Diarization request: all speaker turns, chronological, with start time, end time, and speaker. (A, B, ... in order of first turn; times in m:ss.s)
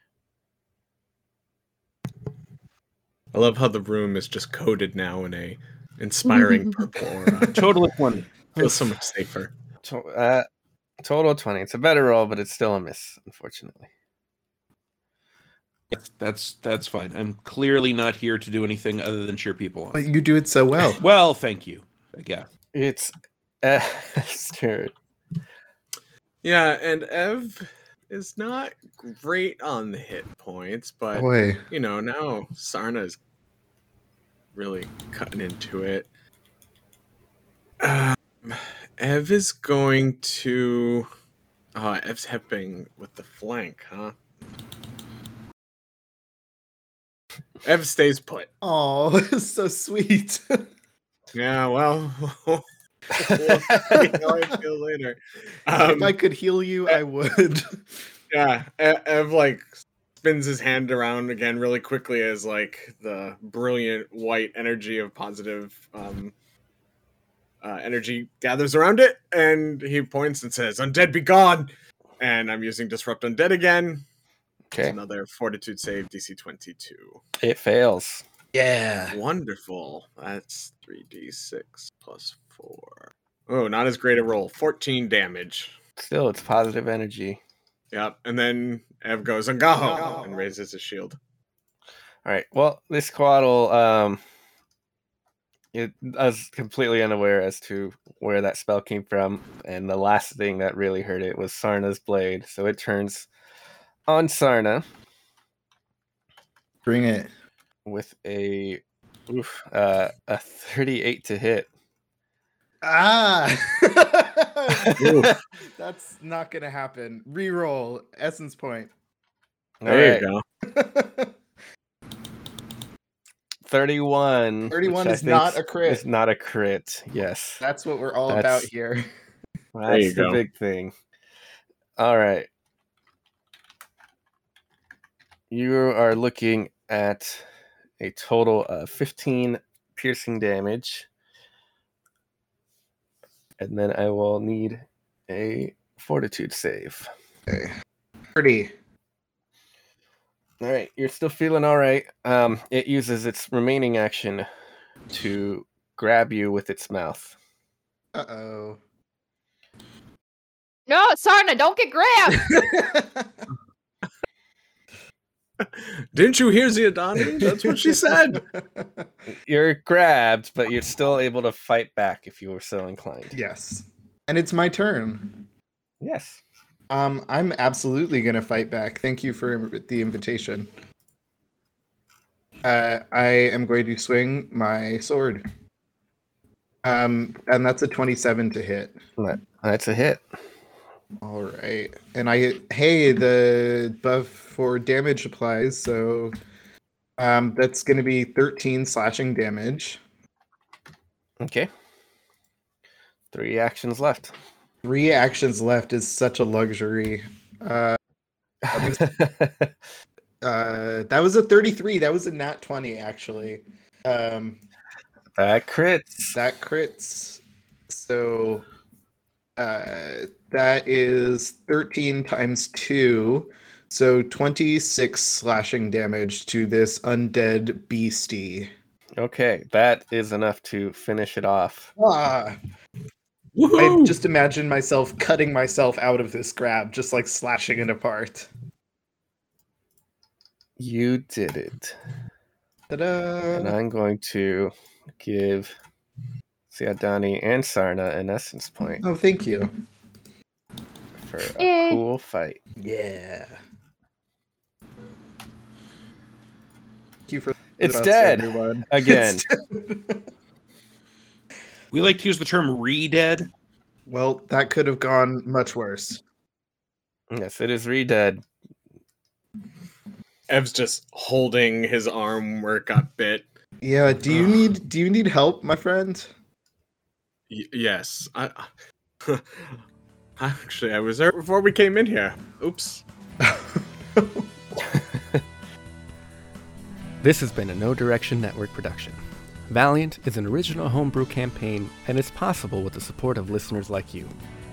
0:03.3-0:07.7 A
0:07.5-0:08.3 B
0:08.6-0:09.5 A
0:08.6-0:08.8 C
0:09.8-0:10.4 D
0:11.0-0:13.9 D
0:15.9-0:20.0 B
0:19.9-0:21.0 C
0:21.0-0:22.5 B
0:22.7-0:24.9 D
0:26.4-0:33.2 A
0:31.1-0:31.6 C
0:34.5-0:36.1 A
0:37.8-0:41.1 A
0:41.7-0:44.2 A
0:47.6-0:48.5 A
0:48.6-0:50.6 C
0:51.3-0:56.1 A
0:53.2-0:54.0 D
0:53.8-0:54.3 C
0:55.8-0:57.9 C
0:58.3-0:59.6 A
1:00.2-1:06.3 A
1:07.6-1:14.0 A
1:14.8-1:17.2 A
1:17.4-1:18.2 D
1:18.5-1:19.2 C
1:19.1-1:25.8 A
1:26.0-1:27.4 D
1:27.9-1:31.2 A
1:29.8-1:30.4 C
1:32.2-1:34.2 D
1:35.7-1:43.3 D
1:44.1-1:44.8 D
1:46.8-1:47.3 C
1:47.8-1:51.7 D
1:52.8-1:55.0 C
1:54.8-1:55.3 D
1:55.0-1:55.3 A
1:55.8-1:58.9 C
1:59.8-2:00.2 D
1:59.8-2:00.4 A
2:00.6-2:01.3 C
2:03.6-2:07.6 D
2:04.7-2:06.0 C
2:07.6-2:09.0 C
2:08.3-2:08.7 D
2:09.7-2:10.9 D
2:09.9-2:10.4 A
2:12.0-2:12.5 D
2:15.5-2:17.4 D
2:18.0-2:21.1 D
2:23.6-2:27.1 D
2:27.5-2:27.7 C
2:28.3-2:28.7 C
2:30.6-2:34.4 D
2:35.1-2:37.3 D
2:38.1-2:38.8 C
2:40.9-2:42.6 E
2:42.4-2:43.5 C
2:45.6-2:48.4 A
2:47.4-2:49.1 C
2:49.4-2:53.3 D
2:53.3-2:55.4 C
2:56.0-2:56.4 D
2:56.9-3:00.7 C
3:02.6-3:05.4 C
3:06.8-3:09.0 C
3:09.2-3:10.2 D
3:11.2-3:16.4 C
3:17.2-3:20.0 C
3:21.4-3:21.7 D
3:23.3-3:24.3 D
3:24.8-3:28.0 C
3:28.6-3:29.7 D
3:28.7-3:29.1 C
3:30.4-3:34.6 C
3:35.3-3:36.3 D
3:36.3-3:38.6 C
3:39.6-3:48.7 C
3:49.2-3:51.9 D
3:52.0-3:52.6 C
3:53.6-3:54.2 B
3:53.7-3:58.5 C
4:00.8-4:02.0 D
4:02.9-4:03.7 C
4:03.5-4:05.7 D
4:06.7-4:09.0 D
4:09.0-4:09.7 C
4:11.2-4:12.6 D
4:11.6-4:12.0 E
4:12.8-4:13.6 C
4:17.3-4:20.2 C
4:17.8-4:19.4 D
4:21.9-4:23.5 B
4:24.1-4:26.2 C
4:27.3-4:28.4 D
4:30.5-4:33.4 A
4:33.8-4:36.3 C
4:34.3-4:34.7 A
4:37.5-4:38.7 A
4:39.2-4:39.8 A
4:40.4-4:43.0 A
4:43.4-4:44.5 C
4:44.8-4:45.4 D
4:47.2-4:54.3 F